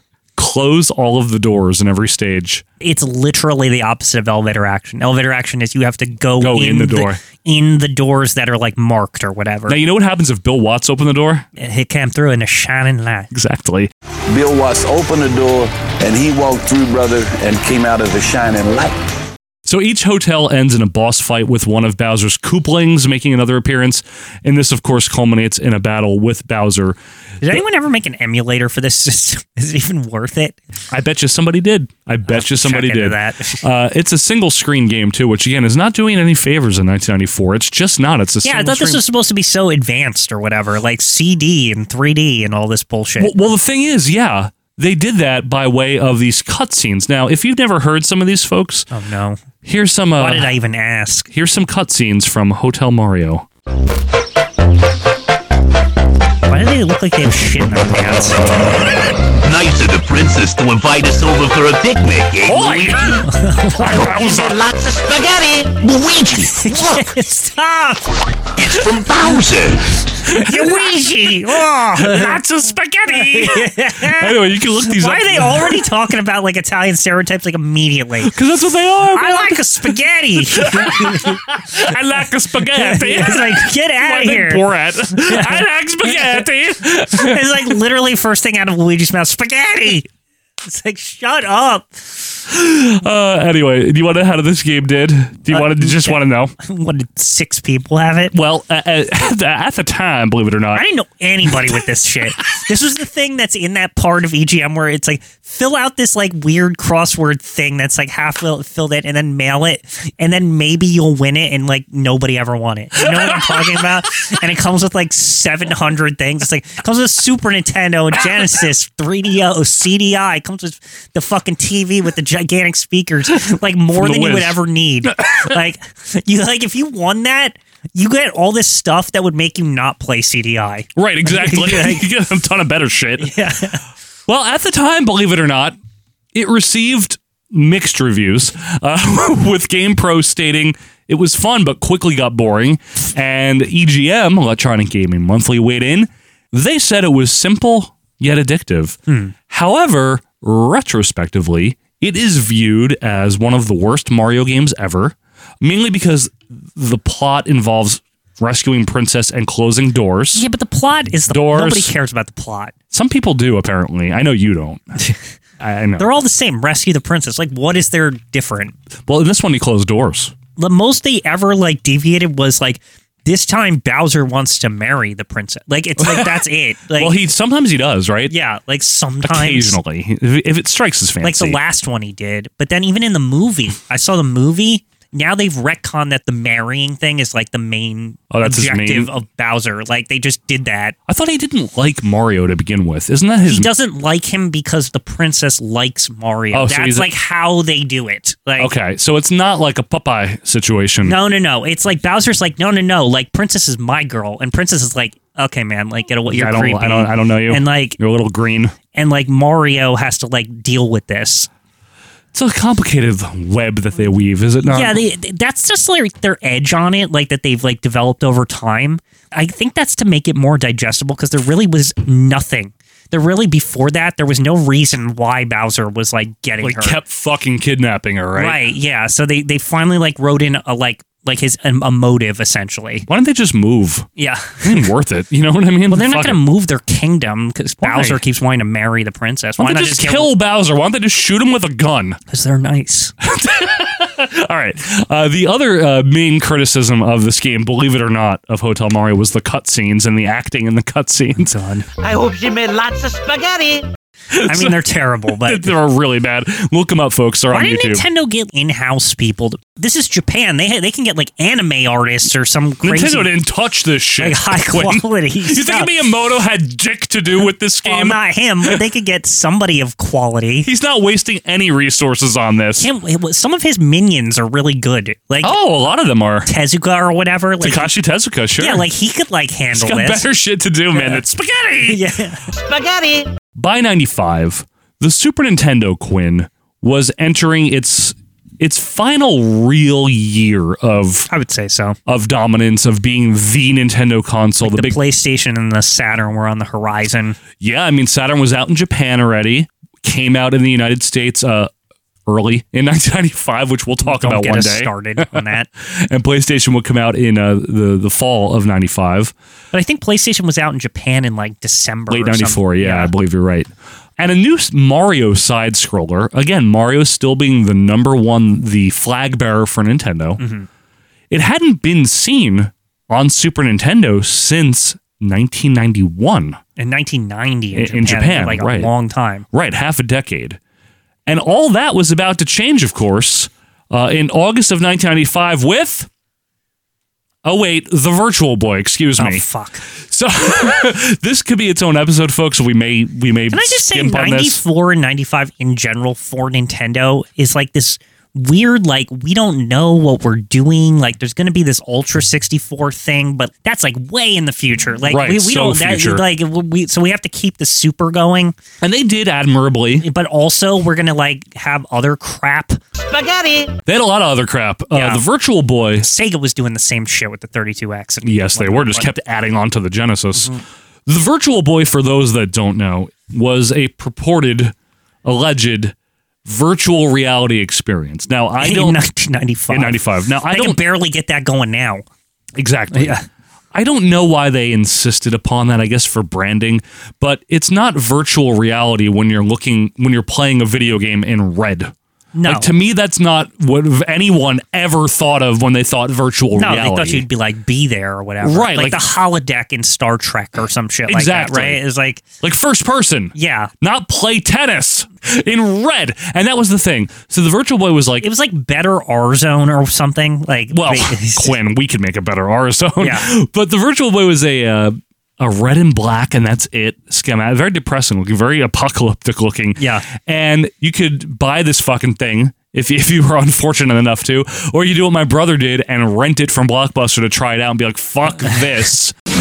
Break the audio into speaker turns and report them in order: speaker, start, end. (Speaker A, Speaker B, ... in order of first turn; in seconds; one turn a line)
Speaker A: 0.4-2.6
Speaker B: 2.8-9.8
Speaker A: 6.4-7.2
Speaker A: 9.7-11.5
Speaker B: 11.6-13.3
Speaker A: 13.3-13.9
Speaker C: 14.3-19.0
Speaker A: 19.7-27.0
Speaker B: 27.4-30.6
Speaker A: 30.9-39.0
Speaker B: 32.3-33.6
Speaker B: 38.4-43.3
Speaker A: 43.2-48.9
Speaker B: 48.9-49.4
Speaker A: 49.6-50.5
Speaker B: 50.2-51.3
Speaker A: 51.3-53.5
Speaker B: 56.5-58.4
Speaker D: 59.4-63.1
Speaker A: 62.5-63.3
Speaker B: 63.2-64.0
Speaker A: 63.8-64.7
Speaker D: 64.1-66.7
Speaker E: 64.3-65.8
Speaker B: 66.6-68.1
Speaker D: 68.6-70.0
Speaker B: 70.3-72.4
Speaker A: 70.3-75.9
Speaker B: 73.1-78.3
Speaker A: 78.3-79.9
Speaker B: 79.2-81.4
Speaker A: 80.5-87.7
Speaker B: 82.8-84.6
Speaker B: 85.2-86.4
Speaker B: 87.1-90.1
Speaker B: 90.6-92.2
Speaker A: 92.5-96.5
Speaker B: 95.5-98.3
Speaker A: 98.3-100.8
Speaker B: 100.8-132.0
Speaker A: 113.3-113.7
Speaker A: 124.0-125.5
Speaker A: 131.0-133.3
Speaker B: 133.2-133.8
Speaker A: 134.3-135.8
Speaker A: 136.3-149.0
Speaker B: 149.1-149.3
Speaker A: 149.5-160.4
Speaker B: 160.3-162.7
Speaker A: 161.3-161.9
Speaker A: 162.9-165.0
Speaker A: 165.6-166.1
Speaker B: 166.0-168.8
Speaker A: 169.1-170.3
Speaker B: 170.6-177.2
Speaker A: 176.0-176.4
Speaker A: 177.0-178.3
Speaker B: 178.3-179.8
Speaker A: 179.2-181.6
Speaker B: 181.2-190.9
Speaker A: 188.3-189.1
Speaker A: 191.1-193.7
Speaker B: 193.5-198.7
Speaker A: 196.5-197.1
Speaker A: 198.6-201.2
Speaker B: 201.0-208.0
Speaker A: 206.3-208.8
Speaker B: 208.9-211.5
Speaker A: 212.3-215.0
Speaker B: 214.7-227.0
Speaker A: 226.6-228.6
Speaker B: 228.4-233.1
Speaker A: 233.1-234.1
Speaker B: 234.2-234.8
Speaker A: 234.6-236.4
Speaker B: 235.9-240.3
Speaker A: 237.8-238.2
Speaker A: 239.6-242.2
Speaker B: 242.3-243.1
Speaker A: 243.2-251.5
Speaker B: 251.3-251.9
Speaker E: 252.0-253.9
Speaker A: 254.3-254.8
Speaker B: 254.5-255.7
Speaker A: 255.4-258.0
Speaker B: 257.5-263.3
Speaker A: 262.8-268.8
Speaker B: 264.2-265.9
Speaker B: 267.8-270.7
Speaker A: 270.6-272.9
Speaker B: 272.8-275.5
Speaker A: 275.4-276.5
Speaker B: 276.5-277.9
Speaker A: 277.6-278.9
Speaker B: 278.6-280.2
Speaker A: 279.7-282.0
Speaker B: 280.9-281.2
Speaker B: 281.9-282.5
Speaker E: 282.5-283.3
Speaker A: 283.6-291.3
Speaker B: 291.3-292.0
Speaker A: 292.1-295.0
Speaker B: 294.6-297.4
Speaker A: 297.6-301.7
Speaker A: 302.3-309.3
Speaker B: 304.1-305.7
Speaker B: 309.7-313.1
Speaker A: 312.1-320.4
Speaker B: 320.4-320.7
Speaker A: 321.3-326.6
Speaker B: 326.8-329.4
Speaker A: 327.7-328.9
Speaker A: 329.5-330.6
Speaker A: 331.3-336.1
Speaker A: 337.4-339.4
Speaker B: 339.2-339.8
Speaker A: 340.1-344.6
Speaker B: 343.5-358.6
Speaker A: 355.1-356.3
Speaker A: 358.8-360.1
Speaker B: 360.0-362.8
Speaker E: 363.0-363.7
Speaker A: 363.9-366.1
Speaker B: 364.9-365.2
Speaker B: 366.0-369.1
Speaker A: 368.2-370.5
Speaker A: 371.1-374.7
Speaker A: 375.2-375.9
Speaker A: 376.5-379.0
Speaker B: 378.6-382.1
Speaker A: 379.7-380.8
Speaker A: 382.6-383.2
Speaker B: 382.9-383.2
Speaker A: 383.7-391.9
Speaker B: 392.4-392.7
Speaker A: 392.4-397.2
Speaker B: 396.6-402.2
Speaker A: 398.4-399.0
Speaker A: 401.1-401.8
Speaker A: 402.4-408.3
Speaker B: 403.4-403.7
Speaker B: 408.2-411.6
Speaker A: 410.7-429.1
Speaker B: 413.0-413.3
Speaker B: 419.8-420.0